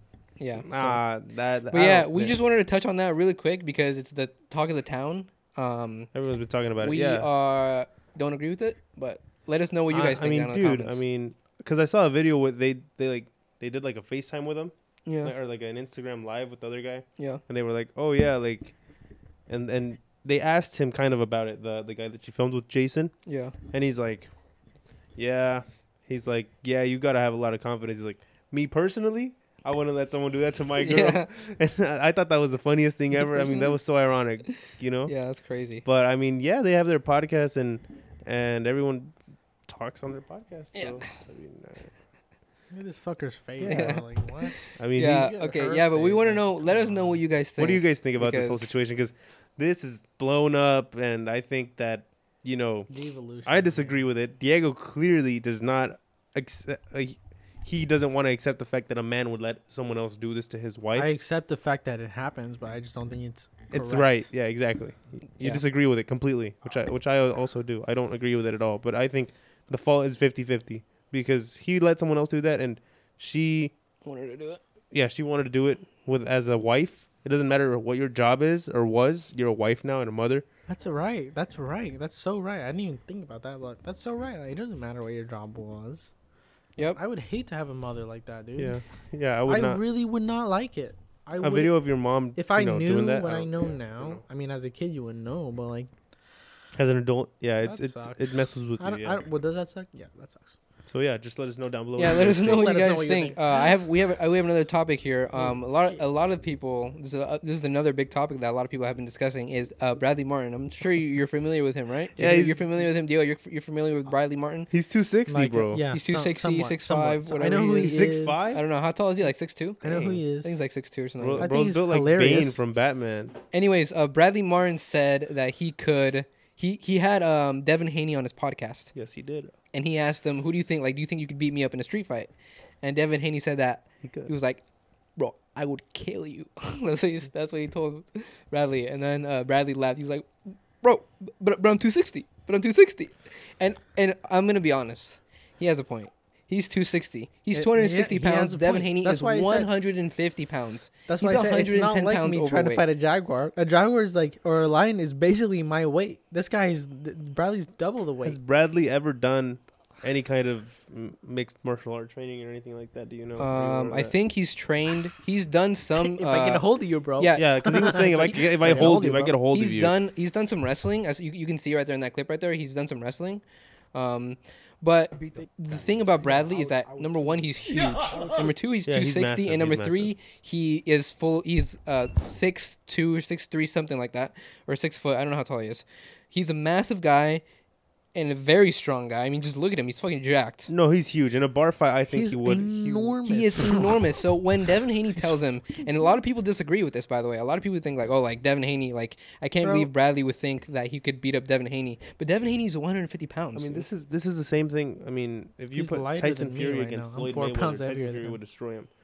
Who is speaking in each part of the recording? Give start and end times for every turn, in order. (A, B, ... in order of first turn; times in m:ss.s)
0:00.4-0:01.0 A
0:00.6-0:02.4 B
0:01.7-0:06.1 A
0:06.1-0:07.3 B
0:06.8-0:11.0 A
0:09.9-0:18.8 B
0:15.1-0:15.3 A
0:19.5-0:23.1 B
0:23.3-0:23.6 A
0:23.7-0:24.3 B
0:25.2-0:35.1 B
0:30.8-0:31.3 A
0:33.2-0:33.8 A
0:35.1-0:35.8 A
0:35.8-0:39.1 B
0:39.7-0:41.9 B
0:40.8-0:41.0 A
0:42.7-0:47.2 C
0:43.6-0:44.0 B
0:43.6-0:44.1 A
0:44.8-0:45.3 B
0:44.9-0:48.7 A
0:47.6-0:52.9 B
0:52.9-0:54.0 C
0:53.4-1:01.1 B
1:01.0-1:04.3 C
1:03.7-1:13.7 B
1:14.0-1:14.6 A
1:14.9-1:20.4 B
1:20.7-1:26.1 C
1:27.0-1:28.8 C
1:28.6-1:29.8 B
1:29.5-1:31.8 C
1:31.4-1:34.2 B
1:32.4-1:35.9 C
1:36.8-1:39.2 B
1:37.6-1:40.6 C
1:40.9-1:42.7 B
1:42.0-1:54.7 A
1:42.3-1:43.7 C
1:45.4-1:46.0 C
1:52.2-1:52.6 B
1:54.7-1:55.8 B
1:55.3-1:58.6 C
1:55.9-2:01.5 A
1:57.8-1:58.6 B
1:59.8-2:00.6 C
1:59.8-2:00.2 B
2:01.2-2:03.4 B
2:01.4-2:02.6 C
2:03.5-2:08.9 A
2:09.0-2:09.5 B
2:09.7-2:12.3 A
2:12.8-2:14.6 A
2:14.0-2:14.3 B
2:15.2-2:32.9 A
2:27.5-2:29.7 C
2:31.1-2:38.4 C
2:38.2-2:44.1 B
2:43.4-2:48.4 A
2:46.0-2:49.4 C
2:47.4-2:50.0 B
2:49.5-2:53.4 A
2:53.9-3:07.4 A
2:58.9-3:00.1 B
3:08.1-3:10.7 A
3:10.7-3:13.2 B
3:12.1-3:14.1 C
3:13.3-3:23.9 A
3:19.6-3:19.9 C
3:23.6-3:28.9 B
3:25.7-3:28.4 C